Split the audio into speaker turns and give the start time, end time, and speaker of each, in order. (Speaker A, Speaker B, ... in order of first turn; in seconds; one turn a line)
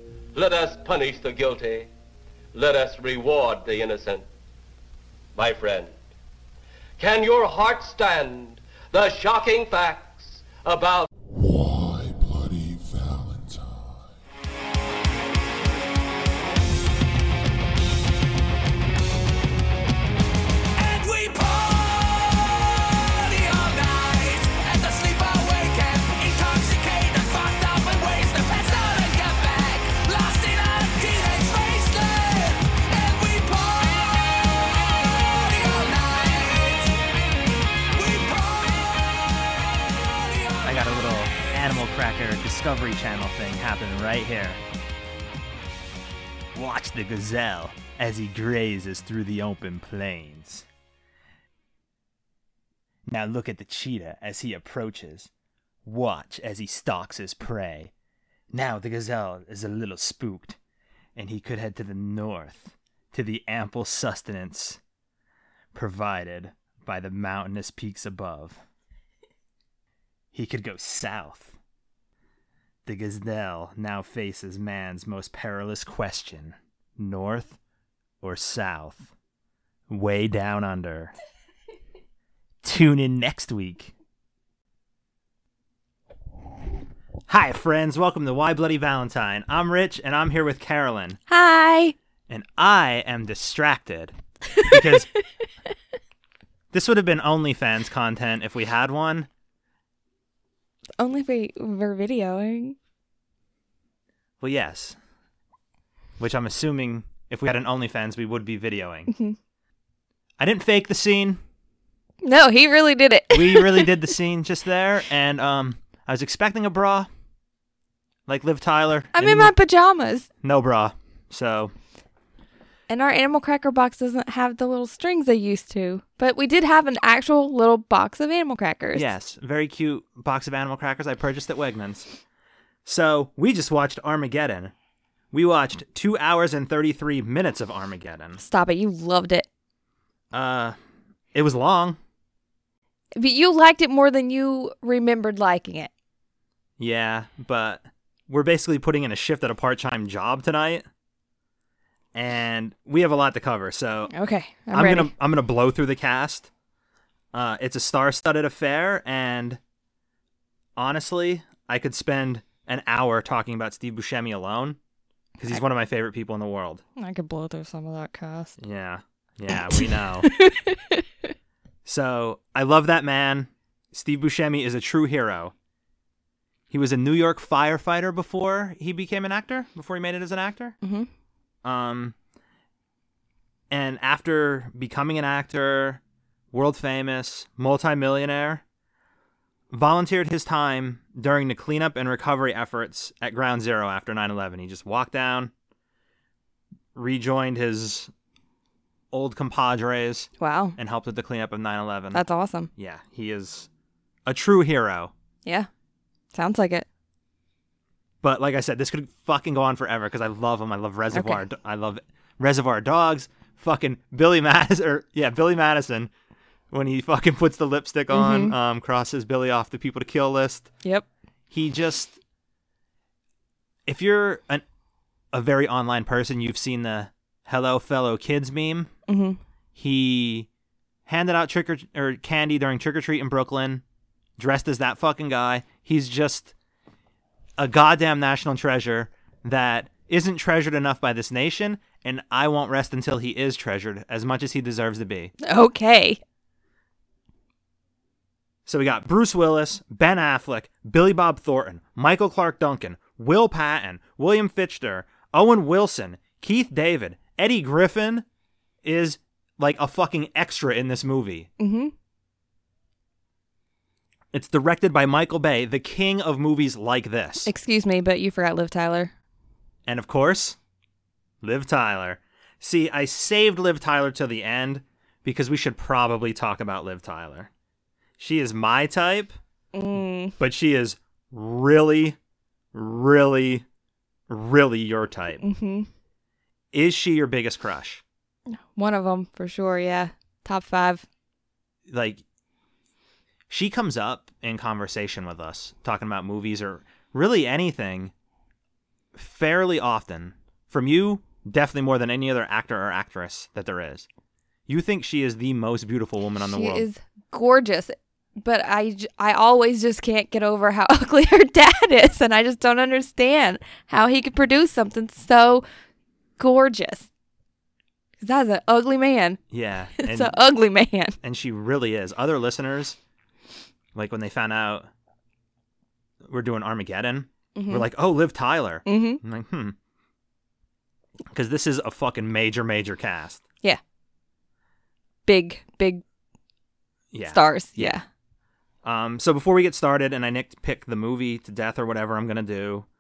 Speaker A: 0.3-1.9
Speaker A: 2.5-4.2
Speaker A: 5.3-5.9
Speaker A: 7.0-11.1
Speaker B: 11.3-14.1
Speaker C: 20.8-37.0
Speaker C: 37.9-41.4
Speaker D: 40.6-44.6
Speaker D: 46.5-50.7
Speaker D: 53.1-55.3
Speaker D: 55.8-57.9
Speaker D: 58.5-60.6
Speaker D: 61.2-64.8
Speaker D: 65.7-68.6
Speaker D: 70.3-71.6
Speaker D: 72.9-77.6
Speaker D: 78.2-79.1
Speaker D: 79.9-81.1
Speaker D: 82.6-83.9
Speaker D: 87.3-91.2
Speaker E: 91.3-92.0
Speaker D: 92.3-95.1
Speaker D: 96.7-99.3
Speaker E: 101.0-102.8
Speaker D: 104.4-105.0
Speaker D: 106.2-109.1
Speaker E: 109.1-109.3
Speaker D: 110.4-111.4
Speaker E: 112.2-114.1
Speaker D: 113.3-117.1
Speaker D: 118.3-119.5
Speaker E: 119.2-120.3
Speaker D: 120.4-121.7
Speaker E: 122.9-129.1
Speaker D: 128.9-132.1
Speaker D: 132.8-134.7
Speaker D: 135.3-138.4
Speaker E: 138.4-139.5
Speaker D: 140.3-140.8
Speaker D: 141.3-142.0
Speaker E: 143.2-145.9
Speaker D: 146.8-150.8
Speaker D: 152.1-154.1
Speaker E: 154.1-155.1
Speaker D: 154.7-156.5
Speaker D: 157.3-159.6
Speaker D: 160.8-164.8
Speaker D: 165.4-166.8
Speaker E: 167.0-168.6
Speaker D: 168.6-170.3
Speaker E: 169.7-171.0
Speaker D: 171.8-175.5
Speaker D: 176.7-180.8
Speaker E: 180.8-181.1
Speaker D: 181.6-182.1
Speaker D: 183.7-186.0
Speaker D: 186.5-188.6
Speaker D: 189.7-195.5
Speaker D: 196.9-198.1
Speaker D: 199.1-202.2
Speaker E: 200.4-200.8
Speaker E: 202.1-202.7
Speaker D: 202.8-203.7
Speaker D: 204.2-205.1
Speaker E: 206.3-206.8
Speaker D: 208.2-216.1
Speaker E: 211.1-211.4
Speaker D: 216.7-220.7
Speaker E: 218.1-218.5
Speaker D: 221.5-222.2
Speaker D: 223.8-224.6
Speaker D: 225.3-228.9
Speaker E: 229.1-229.4
Speaker D: 229.8-230.5
Speaker D: 231.1-233.8
Speaker D: 234.4-236.5
Speaker D: 237.6-245.3
Speaker E: 245.4-246.2
Speaker D: 248.7-258.2
Speaker D: 258.8-261.5
Speaker E: 261.6-261.9
Speaker D: 264.3-267.5
Speaker E: 267.4-269.1
Speaker D: 269.9-270.6
Speaker D: 271.4-277.5
Speaker D: 278.2-279.4
Speaker E: 279.7-280.3
Speaker D: 280.4-282.2
Speaker D: 282.7-283.6
Speaker D: 284.3-285.4
Speaker E: 285.4-285.9
Speaker D: 286.7-288.0
Speaker E: 288.5-291.0
Speaker D: 291.9-292.2
Speaker D: 293.5-298.1
Speaker D: 299.1-304.1
Speaker D: 304.7-306.9
Speaker E: 306.4-315.6
Speaker E: 316.4-317.1
Speaker E: 318.2-319.4
Speaker D: 319.5-320.3
Speaker E: 320.0-321.1
Speaker D: 321.2-323.0
Speaker D: 323.9-324.9
Speaker D: 326.2-329.8
Speaker E: 327.5-327.9
Speaker E: 328.9-329.2
Speaker D: 331.3-333.4
Speaker E: 335.2-336.0
Speaker D: 337.1-338.0
Speaker E: 337.3-338.0
Speaker D: 338.8-342.9